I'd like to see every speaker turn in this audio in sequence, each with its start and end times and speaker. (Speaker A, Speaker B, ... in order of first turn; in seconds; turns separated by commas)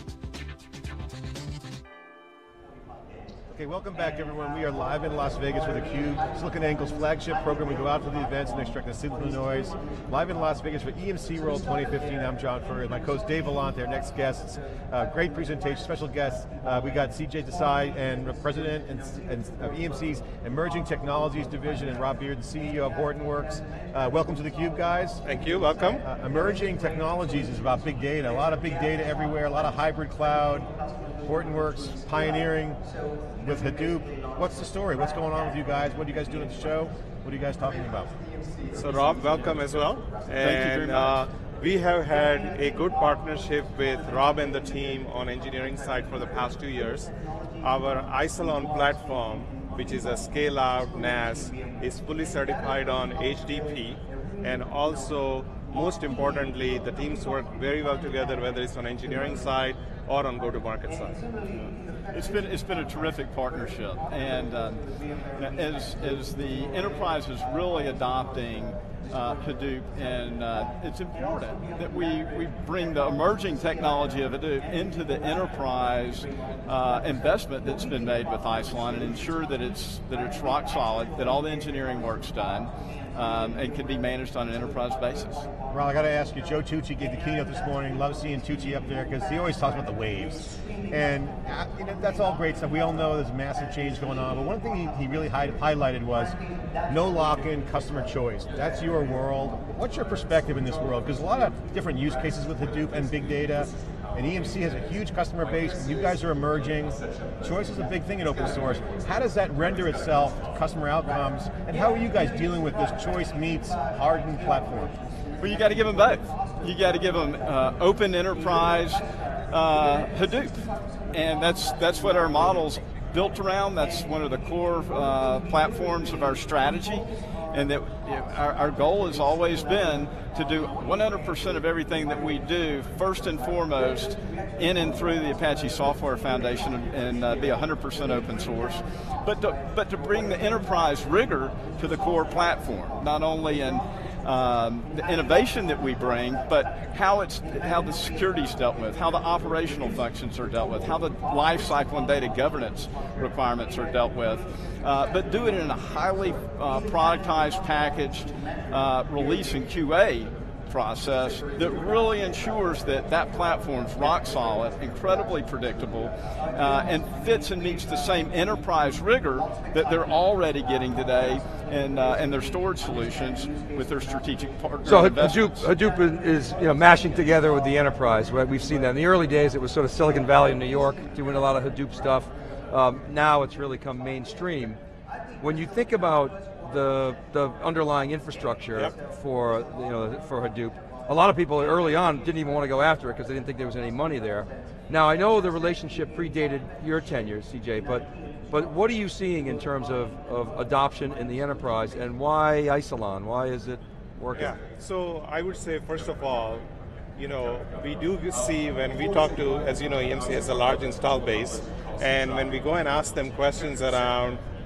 Speaker A: 3.5-25.2, Speaker B: 25.2-26.0, Speaker A: 26.0-30.7, Speaker A: 31.2-32.8, Speaker A: 33.4-38.1, Speaker B: 38.7-61.2, Speaker C: 40.4-41.2, Speaker C: 61.5-64.8, Speaker C: 65.4-85.5, Speaker A: 85.7-96.4, Speaker A: 96.9-114.9, Speaker C: 115.4-175.6, Speaker D: 174.8-184.8, Speaker D: 185.4-204.5, Speaker B: 204.3-206.7, Speaker B: 207.2-214.4